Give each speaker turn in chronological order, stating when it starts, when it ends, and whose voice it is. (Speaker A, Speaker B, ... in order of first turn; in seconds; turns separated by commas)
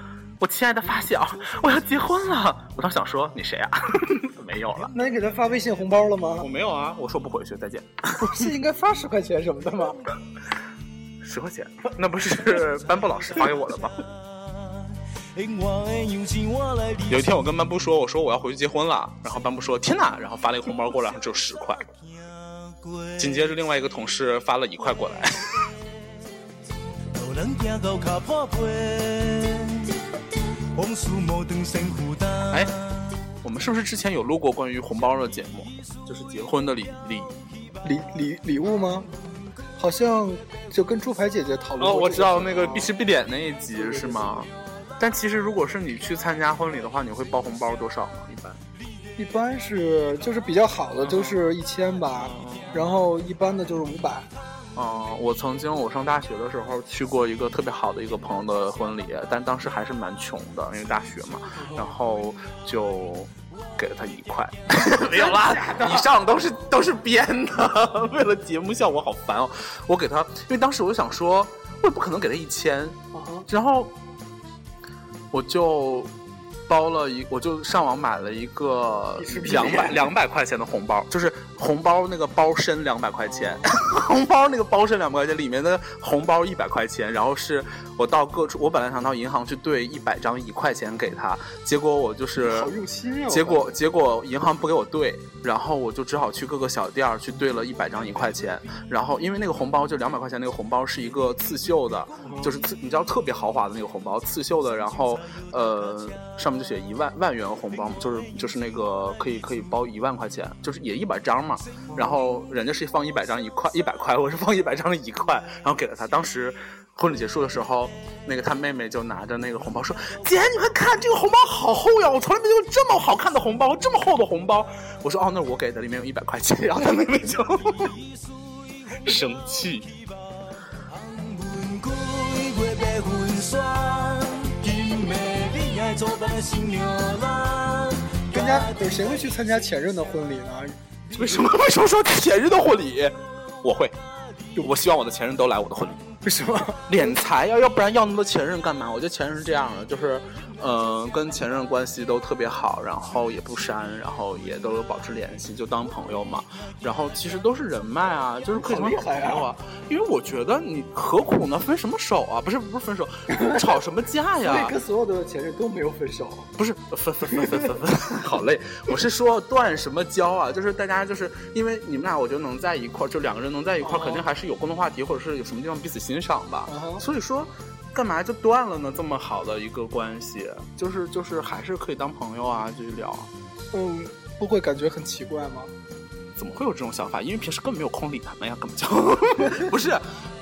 Speaker A: 0.4-4.9, Speaker B: 4.9-6.5, Speaker A: 6.4-8.3, Speaker B: 8.2-10.0, Speaker A: 11.2-14.0, Speaker C: 15.3-17.1, Speaker A: 17.0-21.9, Speaker A: 23.1-25.6, Speaker C: 27.1-30.0, Speaker C: 30.7-32.5, Speaker A: 32.4-32.7, Speaker A: 33.4-37.3, Speaker B: 37.8-39.1, Speaker B: 39.8-42.9, Speaker A: 41.8-48.6, Speaker B: 43.8-44.4, Speaker B: 49.2-54.3, Speaker A: 50.9-51.4, Speaker A: 52.2-52.9, Speaker A: 54.7-73.9, Speaker B: 61.6-61.9, Speaker B: 65.1-66.1, Speaker B: 73.1-73.5, Speaker A: 75.3-76.1, Speaker A: 76.7-92.7, Speaker B: 79.2-80.1, Speaker B: 92.4-93.7, Speaker A: 93.3-128.0, Speaker B: 102.2-102.5, Speaker A: 129.0-129.9, Speaker C: 131.0-138.6, Speaker B: 138.3-140.8, Speaker A: 141.1-143.9, Speaker A: 144.6-146.0, Speaker B: 146.2-147.1, Speaker A: 146.9-164.7, Speaker B: 158.5-159.5, Speaker B: 163.3-163.7, Speaker B: 164.4-166.5, Speaker A: 166.6-183.3, Speaker B: 173.8-174.3, Speaker B: 176.7-177.0, Speaker B: 183.7-185.7, Speaker A: 186.4-190.0